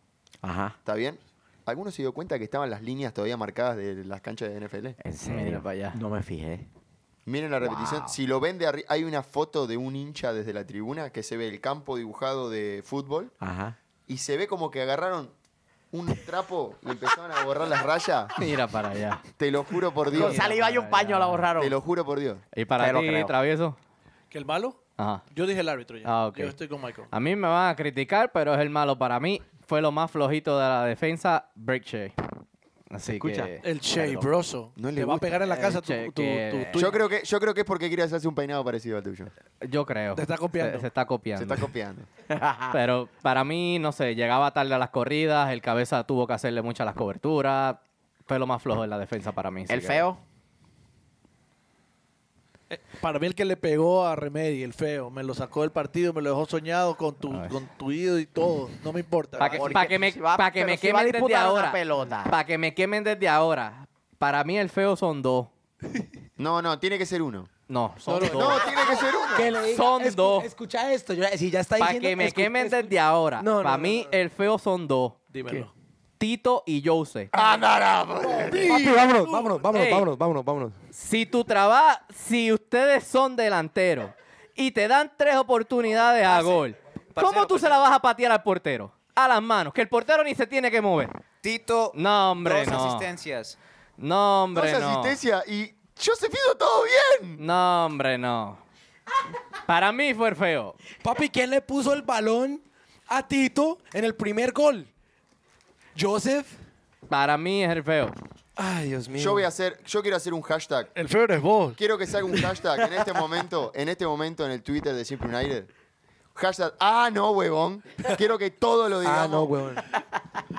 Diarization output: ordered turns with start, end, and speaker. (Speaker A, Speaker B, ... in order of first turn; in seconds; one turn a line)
Speaker A: 0.4-0.8
Speaker B: 0.8-5.0
Speaker A: 5.0-6.7
Speaker C: 5.2-6.0
Speaker B: 7.3-13.3
Speaker A: 7.6-8.2
Speaker A: 13.4-13.8
Speaker B: 14.1-15.3
Speaker B: 15.9-18.4
Speaker C: 18.4-19.2
Speaker B: 19.4-20.4
Speaker C: 20.1-21.5
Speaker A: 20.1-21.8
Speaker B: 21.6-22.4
Speaker C: 22.5-23.8
Speaker A: 22.8-23.3
Speaker D: 24.3-24.8
Speaker C: 25.0-25.2
Speaker D: 25.3-27.1
Speaker C: 26.0-26.6
Speaker C: 27.1-32.1
Speaker C: 32.9-33.6
Speaker A: 33.1-34.3
Speaker D: 33.6-37.0
Speaker B: 34.8-35.5
Speaker C: 35.5-36.9
Speaker B: 36.7-39.3
Speaker C: 39.6-41.7
Speaker D: 40.1-40.9
Speaker B: 41.4-42.1
Speaker A: 42.3-42.8
Speaker C: 42.7-50.1
Speaker A: 49.7-50.2
Speaker D: 52.7-59.8
Speaker C: 57.3-57.6
Speaker C: 59.4-65.5
Speaker A: 59.4-62.3
Speaker B: 66.4-67.5
Speaker C: 67.7-68.8
Speaker E: 68.1-74.0
Speaker B: 68.2-69.5
Speaker C: 69.6-70.5
Speaker C: 71.8-75.2
Speaker D: 75.3-75.7
Speaker C: 76.2-77.3
Speaker B: 77.3-79.0
Speaker D: 78.2-79.7
Speaker E: 78.3-80.8
Speaker C: 79.7-80.1
Speaker C: 80.9-91.2
Speaker F: 87.2-87.8
Speaker F: 91.4-93.6
Speaker C: 91.9-93.1
Speaker C: 94.0-95.2
Speaker B: 94.5-97.4
Speaker C: 97.4-98.6
Speaker C: 99.7-100.8
Speaker E: 101.0-104.9
Speaker E: 106.0-106.6
Speaker C: 107.1-108.2
Speaker E: 108.6-109.5
Speaker B: 109.2-110.9
Speaker D: 111.0-111.8
Speaker B: 111.8-115.7
Speaker B: 116.3-119.5
Speaker E: 119.0-119.9